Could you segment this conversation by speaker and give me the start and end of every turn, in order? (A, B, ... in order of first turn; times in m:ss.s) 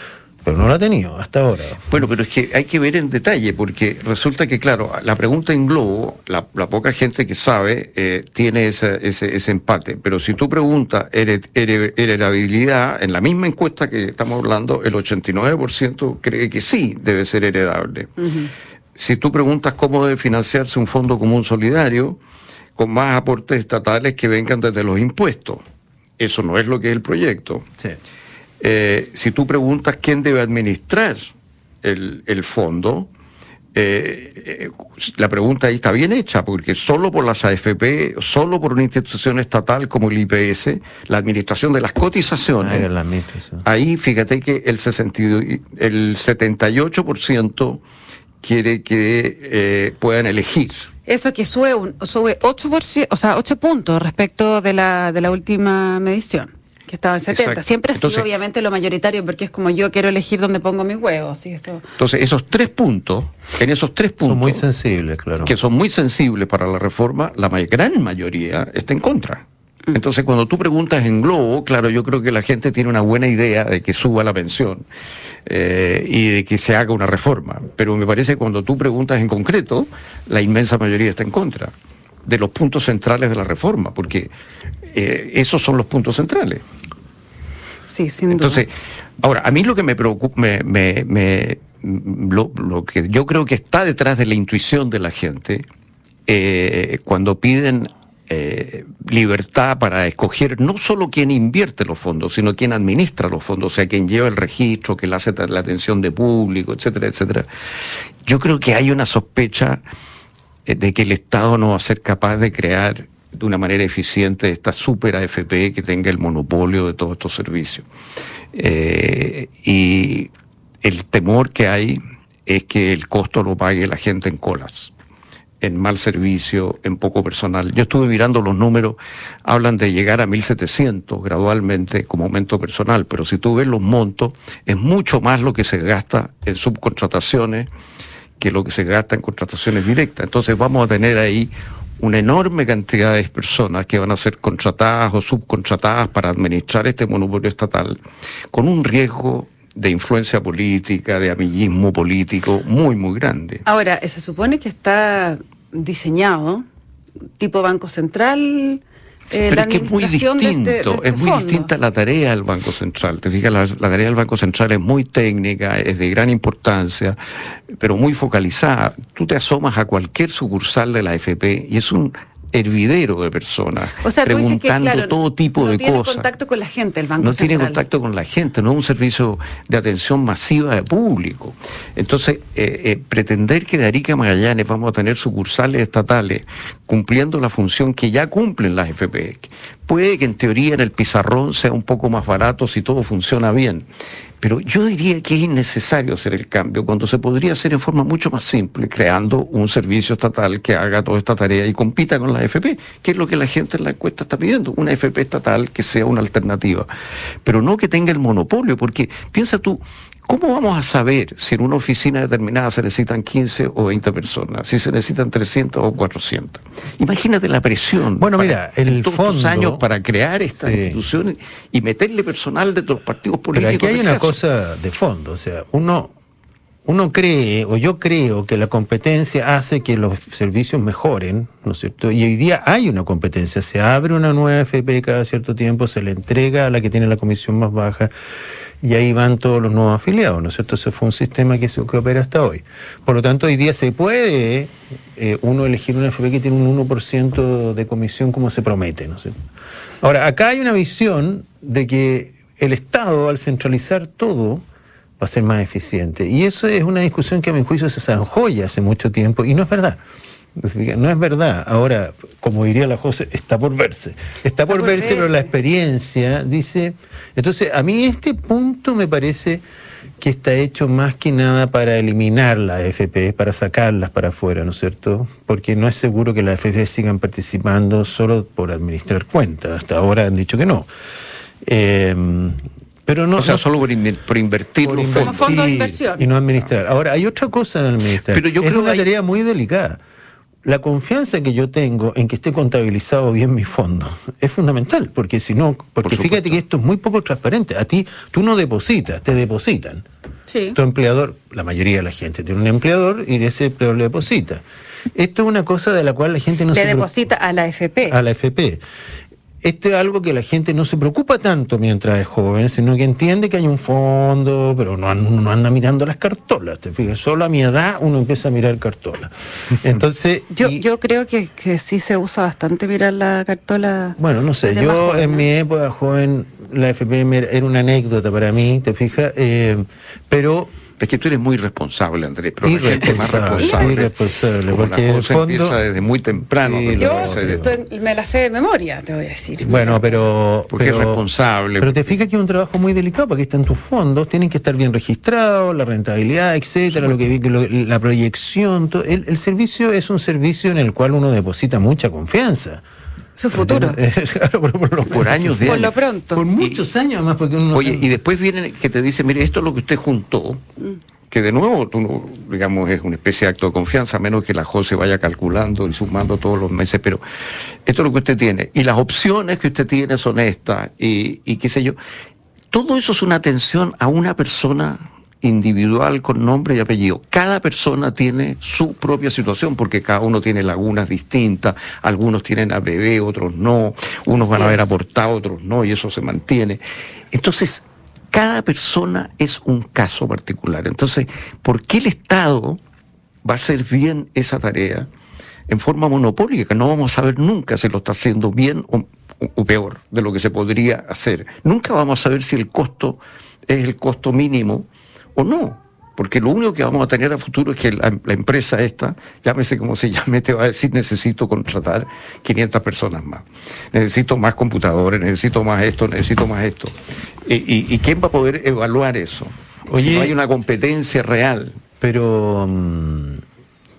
0:00.4-0:01.9 A
0:01.9-0:18.2 B
0:18.2-0:18.5 C
0:19.0-0:22.2 B
0:22.8-0:25.6 B
0:26.2-0:27.7 B
0:28.6-0:31.3 B
0:31.8-0:33.1 B
0:33.8-0:42.9 B
0:42.6-0:43.6 A
0:43.6-0:47.8 B
0:48.4-0:50.9 B
0:51.1-1:01.8 C
0:57.3-0:58.3 B
1:02.0-1:04.6 B
1:04.2-1:05.5 A
1:05.4-1:14.9 B
1:15.5-1:21.7 B
1:22.2-1:24.3 B
1:24.9-1:26.6 B
1:27.9-1:28.6 C
1:28.3-1:35.6 B
1:36.3-1:47.5 B
1:48.2-1:49.8 B
1:50.7-1:57.9 B
1:58.5-2:00.3 B
2:00.8-2:04.9 B
2:05.6-2:17.7 B
2:18.4-2:28.0 B
2:28.5-2:33.6 B
2:33.7-2:36.7 C
2:37.4-2:41.7 C
2:39.5-2:47.2 B
2:47.7-2:56.3 B
2:54.0-2:57.8 C
2:57.2-3:13.9 B
3:14.4-3:26.9 B
3:27.4-3:44.4 B
3:38.2-3:39.8 A
3:40.6-3:41.0 A
3:43.5-3:46.1 A
3:46.9-3:58.1 A
3:58.8-4:09.4 A
4:10.0-4:14.6 A
4:15.2-4:20.0 A
4:20.6-4:29.6 A
4:24.7-4:25.4 C
4:30.2-4:40.9 A
4:41.6-4:43.6 A
4:43.4-4:45.6 B
4:44.8-4:50.0 A
4:45.2-4:46.3 C
4:48.2-4:49.1 B
4:50.6-5:00.0 A
4:56.0-4:56.6 B
5:00.5-5:00.8 C
5:00.7-5:07.1 A
5:06.7-5:08.2 C
5:08.1-5:08.8 A
5:09.6-5:20.8 A
5:20.5-5:25.5 C
5:24.2-5:30.8 A
5:31.0-5:37.7 B
5:32.6-5:35.8 A
5:33.6-5:34.0 C
5:36.5-5:37.8 A
5:37.0-5:40.2 C
5:39.6-5:41.2 A
5:40.7-5:42.2 B
5:41.8-5:52.8 A
5:46.9-5:47.2 B
5:53.4-5:54.0 C
5:53.5-5:58.1 A
5:55.1-5:55.9 B
5:55.6-5:56.4 C
5:57.7-6:00.6 B
6:01.3-6:07.2 B
6:07.9-6:12.0 B
6:12.7-6:26.8 B
6:24.4-6:24.9 C
6:27.3-6:32.8 B
6:33.4-6:35.1 B
6:35.7-7:01.8 B
6:59.9-7:00.4 A
7:02.0-7:03.4 A